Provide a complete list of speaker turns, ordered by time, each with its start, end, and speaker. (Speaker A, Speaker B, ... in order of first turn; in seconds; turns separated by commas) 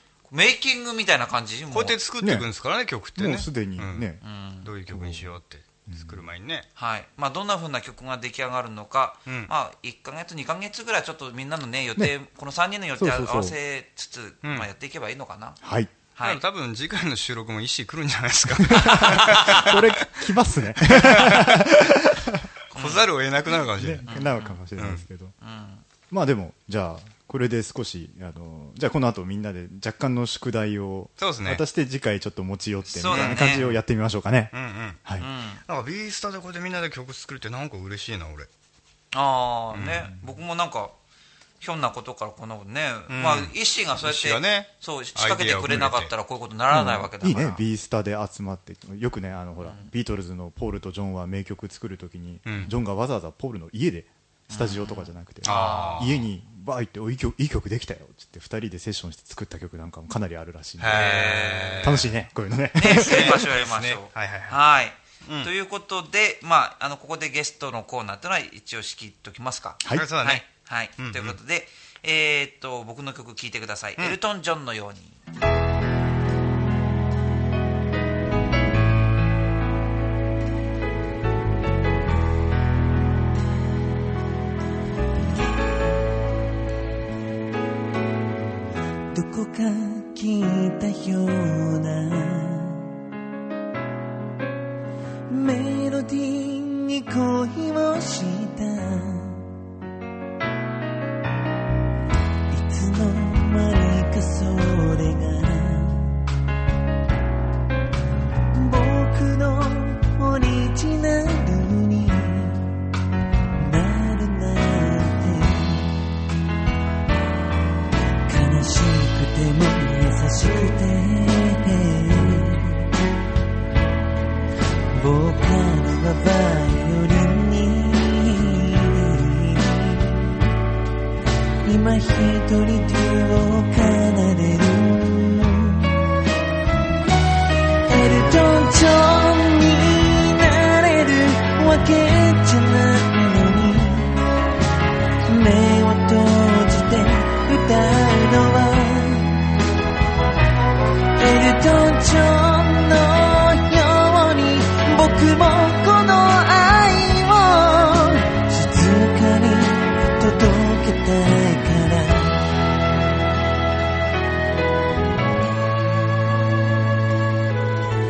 Speaker A: 0.3-2.0, Speaker B: 1.7-4.1, Speaker C: 2.2-2.5, Speaker C: 3.1-4.2, Speaker A: 4.2-4.7, Speaker B: 4.6-6.7, Speaker C: 4.9-5.4, Speaker C: 5.9-6.3, Speaker A: 6.8-15.6, Speaker C: 13.0-13.6, Speaker B: 14.4-14.7, Speaker C: 15.6-15.9, Speaker A: 16.1-16.4, Speaker B: 16.2-20.2, Speaker C: 18.6-22.5, Speaker A: 18.8-19.8, Speaker B: 20.8-21.8, Speaker A: 22.7-23.1, Speaker B: 22.7-24.2, Speaker C: 23.7-25.3, Speaker A: 24.1-24.6, Speaker B: 24.8-25.1, Speaker A: 25.4-25.9, Speaker C: 26.1-35.3, Speaker B: 31.2-31.6, Speaker A: 32.9-33.6, Speaker B: 33.0-33.8, Speaker B: 34.5-35.0, Speaker A: 35.2-35.6, Speaker B: 35.7-38.5, Speaker A: 39.1-40.9, Speaker B: 39.7-40.1, Speaker A: 41.6-47.6, Speaker B: 43.1-46.1, Speaker C: 46.7-63.5, Speaker A: 49.6-49.9, Speaker B: 52.5-52.7, Speaker A: 54.5-56.2, Speaker B: 55.4-56.2, Speaker B: 60.8-62.1, Speaker A: 60.9-62.0, Speaker A: 62.8-75.2, Speaker B: 62.9-64.6, Speaker B: 65.2-65.5, Speaker B: 69.9-70.5, Speaker B: 71.0-71.4, Speaker D: 89.1-92.9, Speaker D: 95.3-99.5, Speaker D: 102.5-106.2, Speaker D: 108.5-112.7, Speaker D: 113.6-116.1, Speaker D: 118.3-122.9, Speaker D: 124.9-130.4, Speaker D: 131.6-136.0, Speaker D: 137.9-144.2, Speaker D: 145.3-149.4, Speaker D: 151.2-162.5